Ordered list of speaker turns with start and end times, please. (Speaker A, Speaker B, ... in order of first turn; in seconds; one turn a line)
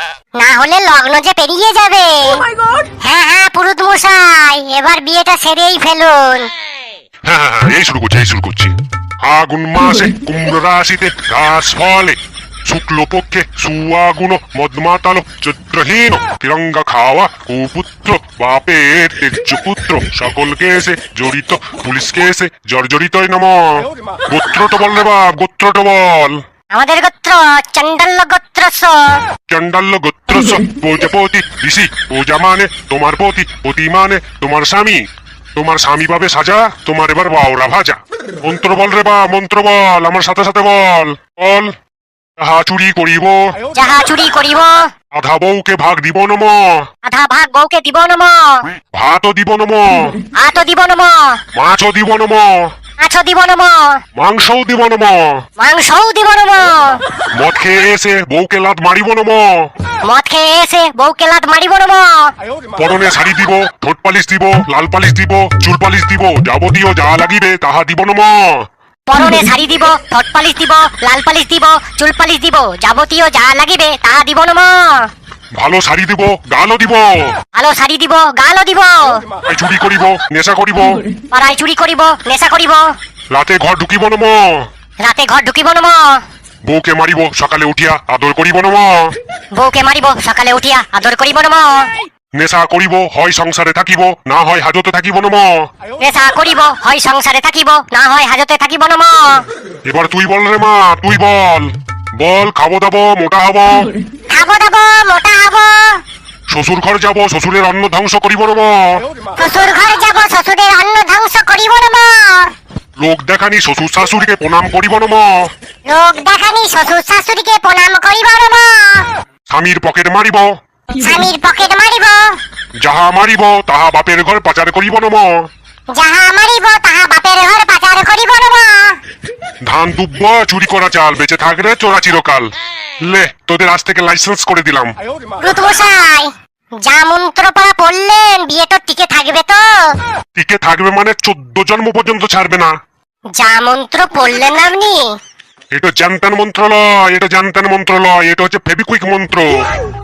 Speaker A: 0.4-2.5
Speaker A: 3.0-6.5
Speaker B: 7.2-26.4
Speaker A: 26.7-29.2
Speaker B: 29.5-35.0
Speaker B: 35.5-41.7
Speaker B: 42.4-43.6
Speaker A: 43.7-44.9
Speaker B: 45.1-46.9
Speaker A: 47.0-48.6
Speaker B: 48.9-50.2
Speaker A: 50.3-51.4
Speaker B: 51.5-52.7
Speaker A: 53.0-54.0
Speaker B: 54.1-55.4
Speaker A: 55.6-57.0
Speaker B: 57.3-59.7
Speaker A: 60.0-62.3
Speaker B: 62.8-68.7
Speaker A: 69.1-75.1
Speaker B: 75.6-77.3
Speaker A: 77.5-79.2
Speaker B: 79.5-81.0
Speaker A: 81.3-82.9
Speaker B: 83.3-84.7
Speaker A: 85.0-86.2
Speaker B: 86.7-89.2
Speaker A: 89.5-91.9
Speaker B: 92.4-95.7
Speaker A: 96.0-99.4
Speaker B: 99.9-103.9
Speaker A: 104.3-106.0
Speaker B: 106.5-109.1
Speaker A: 109.4-112.5
Speaker B: 113.0-115.5
Speaker A: 115.9-119.1
Speaker B: 119.5-120.5
Speaker A: 121.0-122.4
Speaker B: 122.8-125.5
Speaker A: 125.9-129.0
Speaker B: 129.6-135.0
Speaker A: 135.4-140.0
Speaker B: 140.3-142.7
Speaker A: 143.4-145.1
Speaker B: 145.7-149.6